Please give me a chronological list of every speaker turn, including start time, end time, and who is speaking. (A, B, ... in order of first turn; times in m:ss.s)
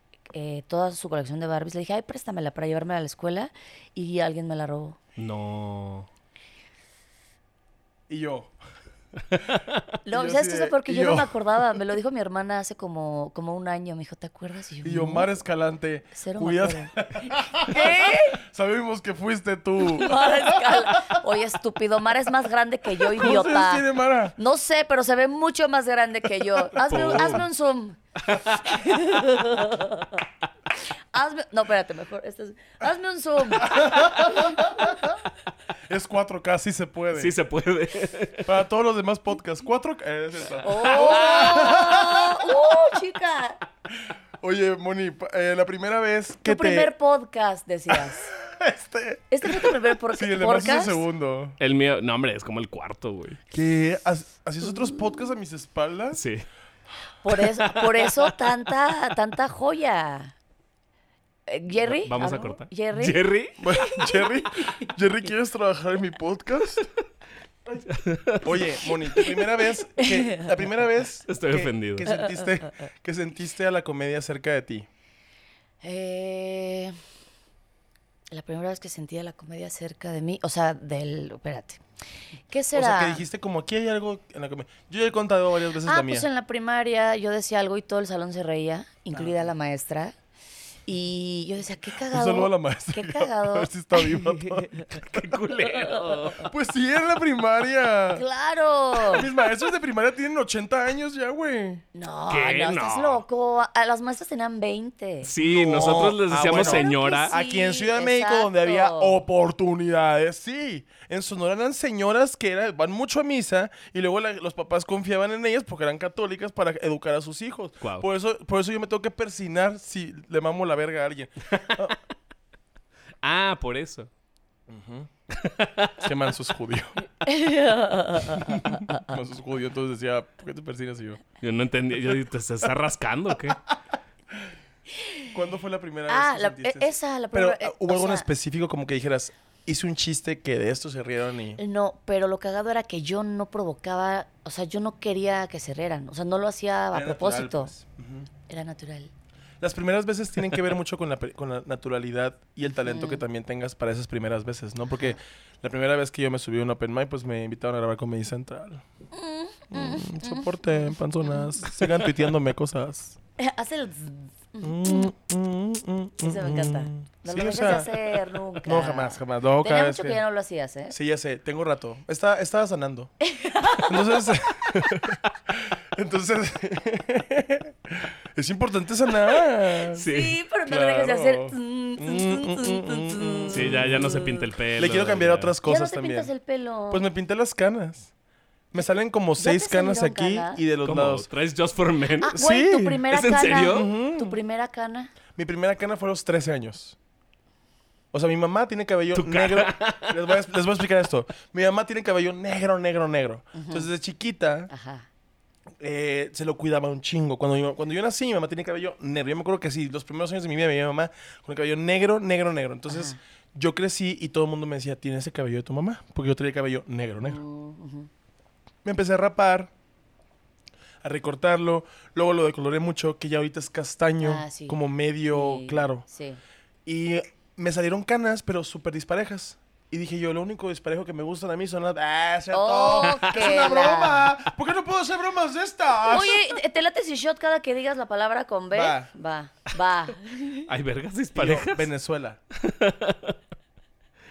0:00.3-0:05.0 A
0:05.2-0:06.1 B
0:08.1-0:08.5 C
0:09.5-0:09.8 B
0:09.5-0:11.3 C
0:10.0-0:15.3 A
0:14.8-0:21.2 C
0:16.2-0:18.4 A
0:19.8-0:23.8 A
0:23.1-0:24.4 C
0:24.4-0:28.0 A
0:26.7-0:27.4 C
0:26.9-0:27.5 B
0:28.2-0:28.6 B
0:28.7-0:30.1 A
0:31.1-0:34.9 A
0:33.6-0:35.2 C
0:35.9-0:37.4 C
0:37.1-0:38.5 B
0:38.4-0:42.6 C
0:40.6-0:43.6 A
0:40.9-0:41.4 B
0:44.4-0:46.9 C
0:46.4-0:48.3 A
0:47.9-0:51.6 C
0:49.3-0:51.0 A
0:51.6-0:53.4 B
0:53.5-0:56.2 C
0:56.1-0:56.4 B
0:57.2-1:00.3 A
0:57.4-0:58.4 B
1:01.5-1:04.7 A
1:01.8-1:03.8 B
1:03.6-1:06.9 C
1:07.9-1:09.2 B
1:08.4-1:14.9 C
1:10.0-1:10.6 A
1:11.3-1:12.1 B
1:12.0-1:12.5 A
1:15.8-1:17.0 A
1:18.3-1:21.8 A
1:22.5-1:23.2 A
1:22.7-1:26.3 C
1:25.8-1:30.2 A
1:29.1-1:29.5 C
1:30.9-1:34.9 A
1:32.1-1:35.0 C
1:34.9-1:36.5 B
1:35.6-1:36.4 A
1:36.5-1:38.2 C
1:38.2-1:39.3 A
1:39.0-1:41.8 C
1:41.9-1:45.3 A
1:42.3-1:43.2 B
1:45.2-1:47.3 B
1:45.4-2:02.0 C
1:45.9-1:49.2 A
2:03.2-2:04.1 B
2:04.7-2:05.1 C
2:05.3-2:06.1 B
2:06.0-2:07.0 C
2:07.2-2:09.0 A
2:08.3-2:11.2 C
2:11.4-2:13.6 B
2:15.3-2:21.6 C
2:16.1-2:18.3 A
2:21.6-2:27.7 A
2:26.9-2:28.3 C
2:28.5-2:29.1 A
2:29.6-2:38.8 C
2:32.8-2:33.2 A
2:39.1-2:41.6 A
2:39.7-2:43.2 C
2:43.4-2:45.1 A
2:44.6-2:50.2 C
2:46.2-2:50.9 A
2:50.9-2:53.1 C
2:53.2-2:54.4 A
2:53.8-3:00.0 C
2:59.9-3:04.5 A
3:00.0-3:00.4 B
3:00.7-3:04.2 C
3:03.5-3:05.6 B
3:04.8-3:06.3 C
3:05.6-3:07.0 A
3:06.9-3:08.1 C
3:08.7-3:11.3 C
3:08.8-3:10.6 A
3:10.8-3:12.4 B
3:12.2-3:15.1 A
3:12.3-3:13.0 C
3:13.1-3:13.9 B
3:13.6-3:14.4 C
3:15.4-3:17.0 C
3:18.1-3:24.7 C
3:19.1-3:20.4 B
3:23.5-3:23.9 A
3:24.7-3:25.1 A
3:25.8-3:37.4 C
3:32.9-3:33.2 A
3:37.2-3:38.1 A
3:38.8-3:39.7 C
3:41.0-3:46.0 C
3:44.2-3:44.8 A
3:45.3-3:46.4 A
3:46.9-3:56.4 C
3:52.5-3:54.3 A
3:53.0-3:53.6 B
3:56.1-4:00.7 A
3:58.7-3:59.1 C
4:00.7-4:01.9 B
4:01.4-4:02.4 C
4:02.5-4:03.4 B